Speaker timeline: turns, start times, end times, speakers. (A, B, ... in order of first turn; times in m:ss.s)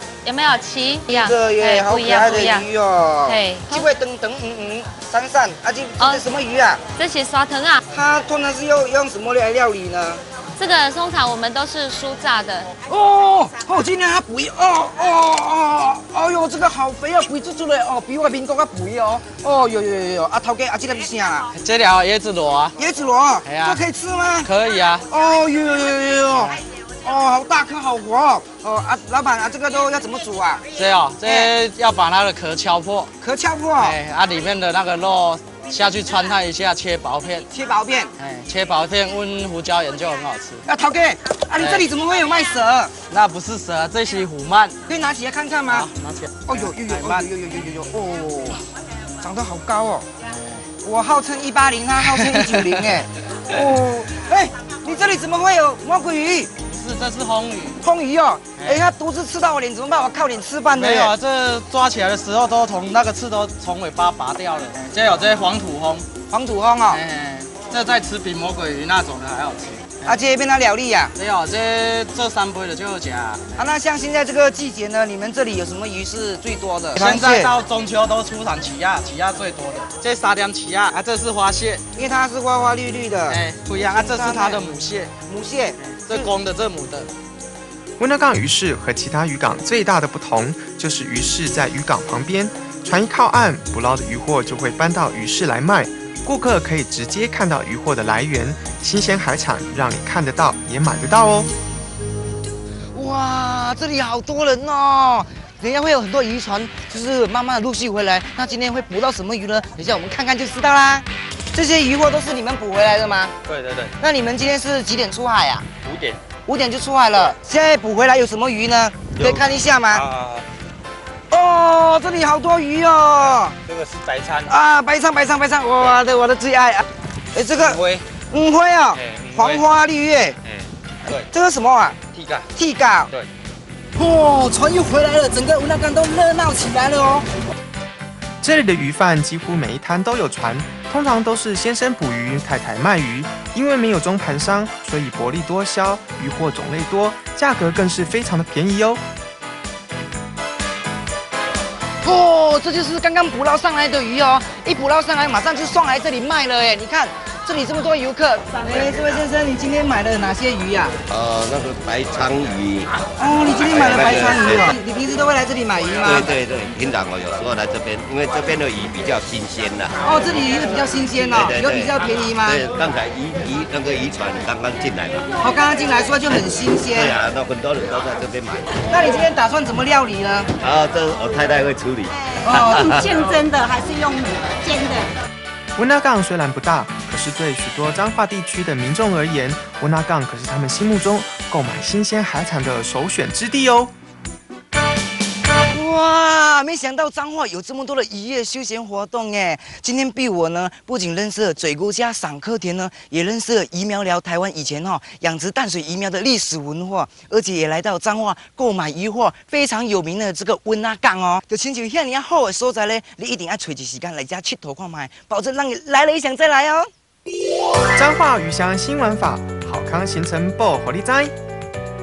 0:00.2-0:02.7 A
0:01.1-0:06.8 B
0:03.3-0:03.9 A
0:07.0-0:07.8 A
0:07.9-0:10.2 B
0:10.6-0:12.7 A
0:12.8-0:21.5 B
0:21.5-0:22.8 C
0:22.8-0:24.5 B
0:23.4-0:23.8 C
0:24.4-0:25.0 C
0:25.1-0:30.7 B
0:26.3-0:26.6 C
0:30.7-0:33.1 C
0:31.2-0:31.5 B
0:33.2-0:34.0 B
0:33.8-0:37.5 C
0:37.5-0:38.1 B
0:38.2-0:40.6 C
0:40.7-0:43.0 B
0:41.6-0:41.9 C
0:43.1-0:44.8 C
0:44.9-0:45.9 B
0:45.7-0:47.3 C
0:46.5-0:48.6 B
0:49.2-0:50.1 B
0:50.4-0:50.6 C
0:50.8-0:56.5 B
0:52.2-0:52.8 C
0:56.6-0:57.8 C
0:57.8-1:01.1 B
0:58.6-0:58.8 C
1:00.7-1:06.1 C
1:06.3-1:07.0 B
1:06.9-1:10.2 C
1:10.0-1:11.1 B
1:11.2-1:13.4 C
1:13.6-1:17.5 B
1:17.0-1:21.8 C
1:22.0-1:24.7 B
1:23.3-1:25.1 C
1:25.3-1:26.3 B
1:25.8-1:27.1 C
1:28.0-1:41.5 D
1:42.9-1:53.4 B
1:53.5-1:53.9 E
1:54.0-1:55.7 B
1:55.9-1:56.2 E
1:56.4-2:00.0 B
1:59.2-2:00.4 E
2:01.3-2:03.6 B
2:03.7-2:04.5 E
2:04.5-2:10.4 B
2:07.6-2:08.0 E
2:09.0-2:09.6 E
2:11.3-2:12.0 B
2:12.1-2:12.5 E
2:12.6-2:13.1 B
2:14.0-2:17.3 B
2:18.4-2:29.0 D
2:32.0-2:41.0 B
2:38.7-2:39.2 F
2:41.1-2:44.7 F
2:43.2-2:46.4 B
2:46.0-2:50.0 F
2:50.0-2:52.6 B
2:51.3-2:55.4 F
2:55.4-2:57.1 B
2:56.9-2:58.8 F
2:58.9-3:00.5 B
3:00.6-3:03.1 F
3:02.4-3:02.8 B
3:02.5-3:05.1 G
3:05.8-3:13.9 D
3:15.7-3:36.9 B
3:37.9-3:41.3 D